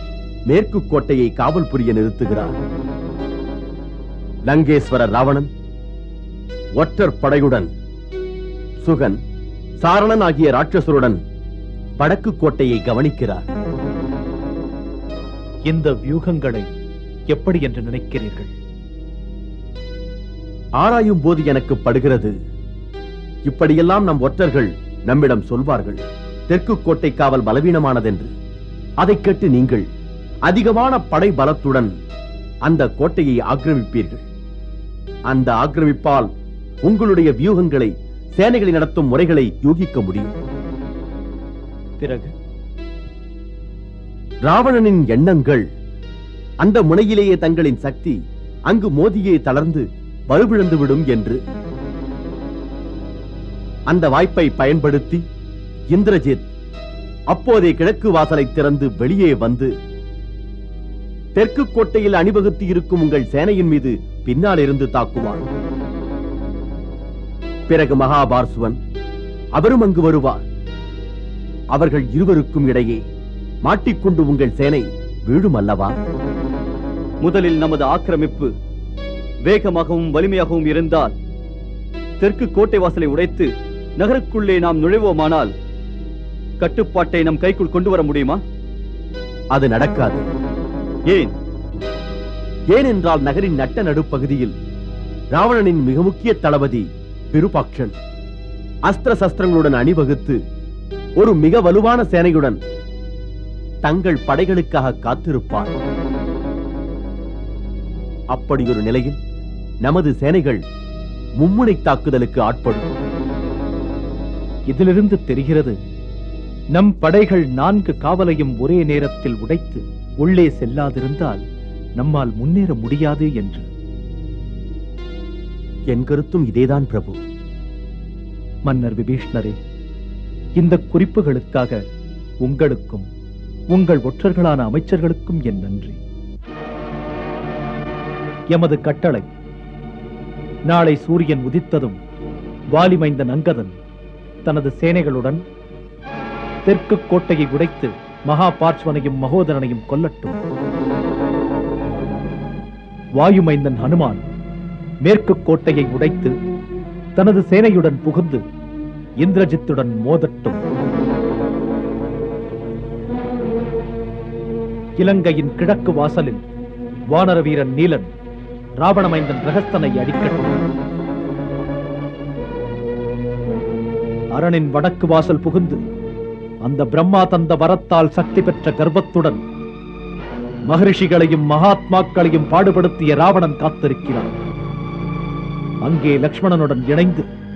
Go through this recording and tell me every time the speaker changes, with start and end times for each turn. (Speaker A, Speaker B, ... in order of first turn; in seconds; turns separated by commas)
Speaker A: 0.5-2.5, Speaker A: 4.5-5.5, Speaker A: 6.8-7.7, Speaker A: 8.8-9.2, Speaker A: 9.8-11.2, Speaker A: 12.0-13.4, Speaker B: 15.7-16.7, Speaker B: 17.3-18.5, Speaker A: 20.8-22.3, Speaker A: 23.4-28.3, Speaker A: 29.0-29.8, Speaker A: 30.5-31.9, Speaker A: 32.6-34.2, Speaker A: 35.3-36.3, Speaker A: 36.8-40.3, Speaker B: 42.0-42.3, Speaker A: 44.4-45.6, Speaker A: 46.6-48.2, Speaker A: 48.7-51.4, Speaker A: 53.9-55.2, Speaker A: 55.9-56.4, Speaker A: 57.3-59.7, Speaker A: 61.3-65.4, Speaker A: 67.7-68.8, Speaker A: 69.5-70.4, Speaker A: 71.7-73.0, Speaker A: 73.6-76.0, Speaker C: 77.2-78.5, Speaker C: 79.5-81.1, Speaker C: 82.2-85.5, Speaker C: 86.6-88.4, Speaker A: 89.5-90.3, Speaker A: 92.7-94.5, Speaker A: 95.3-97.9, Speaker A: 98.9-100.4, Speaker A: 101.2-102.6, Speaker A: 103.8-105.7, Speaker A: 108.3-109.2, Speaker A: 109.8-110.6, Speaker A: 111.4-112.9, Speaker B: 114.7-115.8, Speaker B: 116.7-121.4, Speaker B: 122.0-123.7, Speaker A: 125.9-127.2, Speaker B: 128.7-129.6, Speaker B: 130.6-131.8, Speaker B: 132.4-133.1, Speaker B: 133.7-136.0, Speaker B: 138.5-139.3, Speaker B: 140.7-142.0, Speaker B: 142.7-143.8, Speaker B: 144.4-145.4, Speaker B: 146.7-150.4, Speaker B: 153.2-154.2, Speaker B: 155.0-156.3, Speaker B: 157.2-158.4, Speaker B: 159.2-160.6, Speaker B: 165.0-166.4, Speaker B: 167.1-168.1, Speaker B: 168.8-170.6, Speaker B: 174.3-175.8, Speaker B: 176.6-179.4, Speaker B: 180.7-184.3, Speaker B: 185.8-187.2